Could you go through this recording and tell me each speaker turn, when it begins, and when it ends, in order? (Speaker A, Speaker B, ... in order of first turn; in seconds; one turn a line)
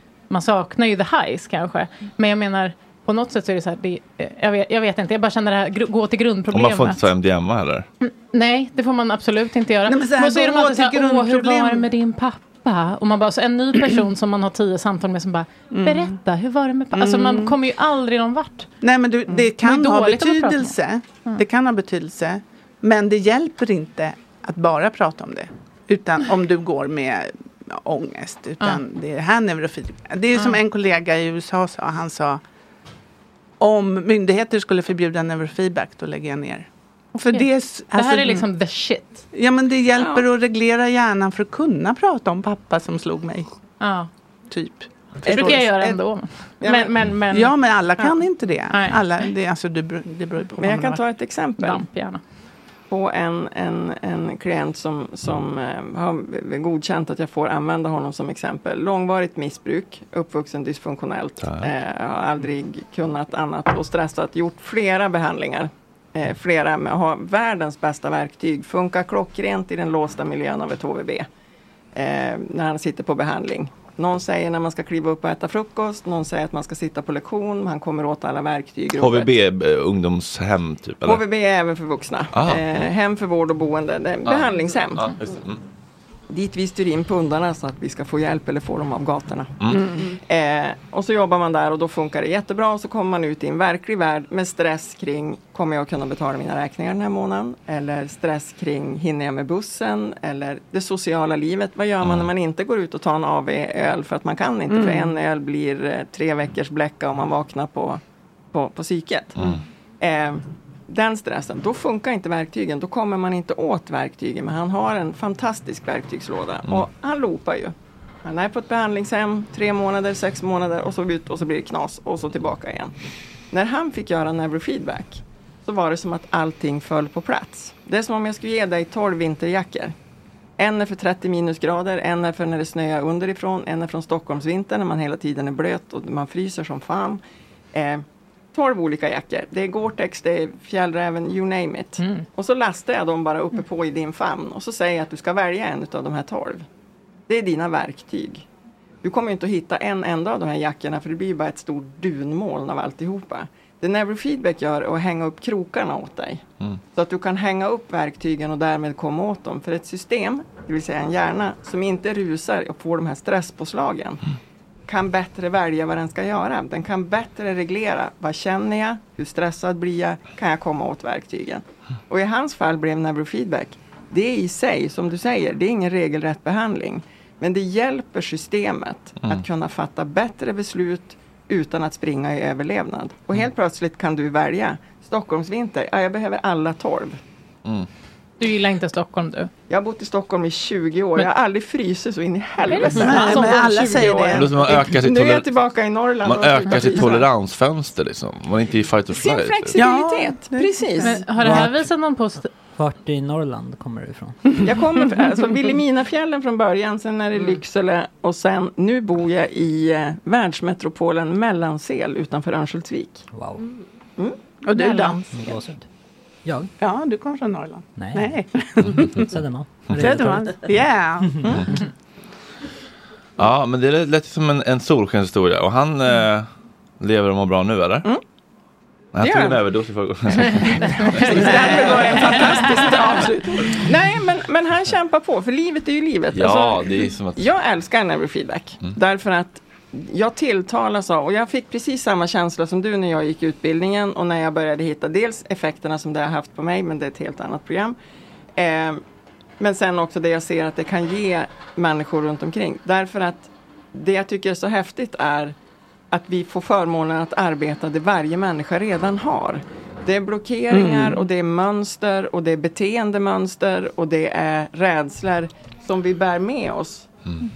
Speaker A: 0.3-7.0
Speaker B: 6.5-7.9
Speaker A: 8.0-18.7
Speaker C: 9.9-11.9
Speaker C: 15.7-16.2
Speaker C: 16.9-17.6
Speaker C: 18.8-32.4
Speaker A: 19.3-21.4
Speaker C: 33.6-38.5
Speaker A: 37.2-39.2
Speaker C: 39.3-43.5
Speaker D: 39.9-40.3
Speaker A: 43.8-44.1
Speaker C: 44.5-45.7
Speaker D: 45.2-47.1
Speaker A: 45.2-47.5
Speaker C: 47.3-51.1
Speaker A: 48.7-49.0
Speaker D: 50.6-51.9
Speaker A: 51.6-52.2
Speaker D: 52.9-71.3
Speaker B: 61.4-61.7
Speaker D: 72.0-79.4
Speaker B: 79.0-81.2
Speaker D: 81.0-85.2
Speaker B: 82.3-82.6
Speaker B: 84.3-85.6
Speaker D: 86.3-108.0
Speaker B: 89.6-89.9
Speaker B: 102.0-102.3
Speaker C: 104.7-105.2
Speaker D: 108.5-122.9
Speaker B: 109.4-109.6
Speaker D: 123.5-129.9
Speaker D: 130.6-137.2
Speaker D: 137.7-146.7
Speaker D: 147.3-148.5
Speaker D: 149.0-164.2
Speaker D: 164.9-187.2
Speaker A: 188.4-189.5
Speaker D: 189.7-197.3
Speaker A: 192.7-194.1
Speaker C: 193.0-194.5
Speaker B: 194.3-195.5
Speaker B: 196.2-199.8
Speaker D: 199.1-201.7
Speaker C: 199.8-201.6
Speaker A: 201.0-202.5
Speaker E: 201.4-201.9
Speaker E: 202.8-204.4
Speaker D: 204.6-213.3
Speaker E: 213.3-213.7
Speaker C: 214.6-215.6
Speaker A: 214.8-215.2
Speaker E: 215.3-215.9
Speaker E: 216.4-216.7
Speaker C: 216.8-219.3
Speaker E: 218.0-218.4
Speaker E: 219.0-221.6
Speaker C: 220.0-221.8
Speaker D: 221.4-221.8
Speaker B: 223.4-226.5
Speaker B: 227.0-228.1
Speaker B: 229.2-231.9
Speaker D: 229.2-229.7
Speaker D: 230.4-248.0
Speaker A: 231.0-231.3
Speaker C: 231.8-232.2
Speaker A: 231.9-233.2
Speaker B: 236.3-237.5
Speaker D: 248.6-249.0
Speaker D: 249.6-255.6
Speaker D: 256.1-267.1